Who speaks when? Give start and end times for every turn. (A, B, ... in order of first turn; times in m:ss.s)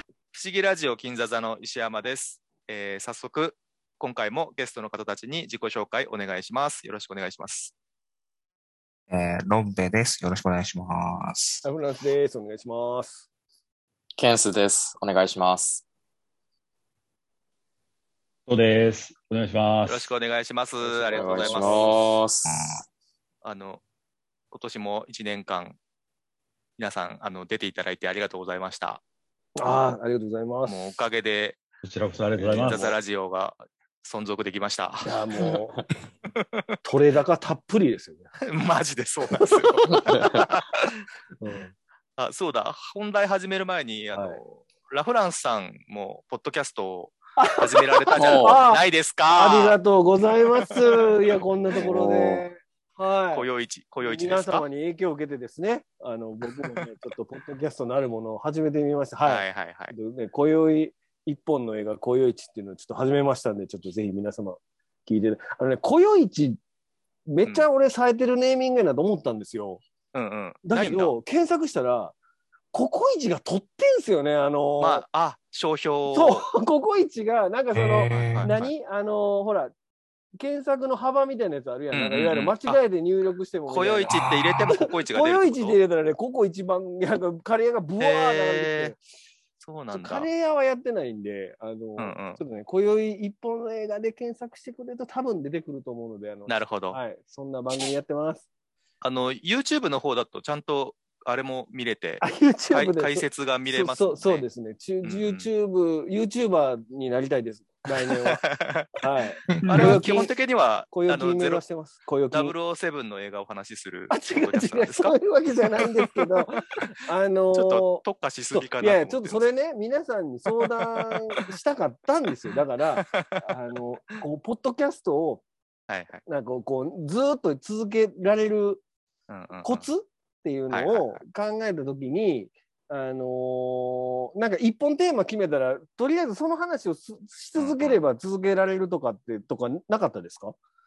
0:00.3-0:07.7 A
0:09.1-0:11.6 B
0:11.6-0:13.3 C
0:14.2-0:15.8 D
0:18.5-0:20.1 E
0:19.9-0:22.0 A
0:20.8-0:22.0 C
0:21.1-0:22.7 D
0:22.5-0:22.8 B
0:23.4-0:23.8 A
0:24.5-0:25.8 A
0:26.8-0:29.0 A
0:29.6-0:31.0 C
0:30.7-0:31.6 A
0:31.8-0:33.0 E
0:32.4-0:35.2 A
0:35.0-0:35.8 C
0:35.4-0:35.8 D
0:36.4-0:36.6 A
0:36.8-0:38.3 C
0:38.4-0:41.0 A
0:39.3-0:40.6 C
0:41.4-0:41.7 C
0:42.2-0:49.8 A
0:44.1-0:44.4 C
0:47.4-0:53.5 C
0:48.2-0:48.6 D
0:50.6-0:51.1 A
0:51.7-0:52.5 D
0:53.3-0:54.6 A
0:54.0-1:06.6 C
0:59.2-1:00.0 A
1:07.3-1:09.8 C
1:10.1-1:11.2 A
1:10.6-1:12.2 C
1:12.7-1:15.1 C
1:14.8-1:16.4 A
1:16.1-1:19.7 C
1:17.7-1:18.5 B
1:18.3-1:18.7 A
1:20.4-1:29.0 C
1:21.9-1:22.8 A
1:23.7-1:25.8 A
1:24.1-1:24.8 B
1:28.0-1:29.0 A
1:29.6-1:30.3 A
1:29.9-1:38.4 C
1:32.0-1:32.4 A
1:36.5-1:37.0 A
1:39.0-1:44.5 A
1:42.2-1:48.4 C
1:45.0-1:45.5 A
1:48.0-1:48.9 A
1:49.0-1:50.3 C
1:49.5-1:50.0 B
1:49.7-1:51.6 A
1:50.9-1:52.6 C
1:52.3-1:55.2 A
1:54.1-1:58.0 C
1:57.5-1:59.4 A
1:58.5-2:05.4 C
2:00.6-2:01.4 A
2:03.0-2:03.4 A
2:05.9-2:06.2 A
2:06.3-2:08.8 C
2:09.3-2:09.9 A
2:09.6-2:20.6 C
2:10.7-2:11.2 A
2:17.6-2:18.0 A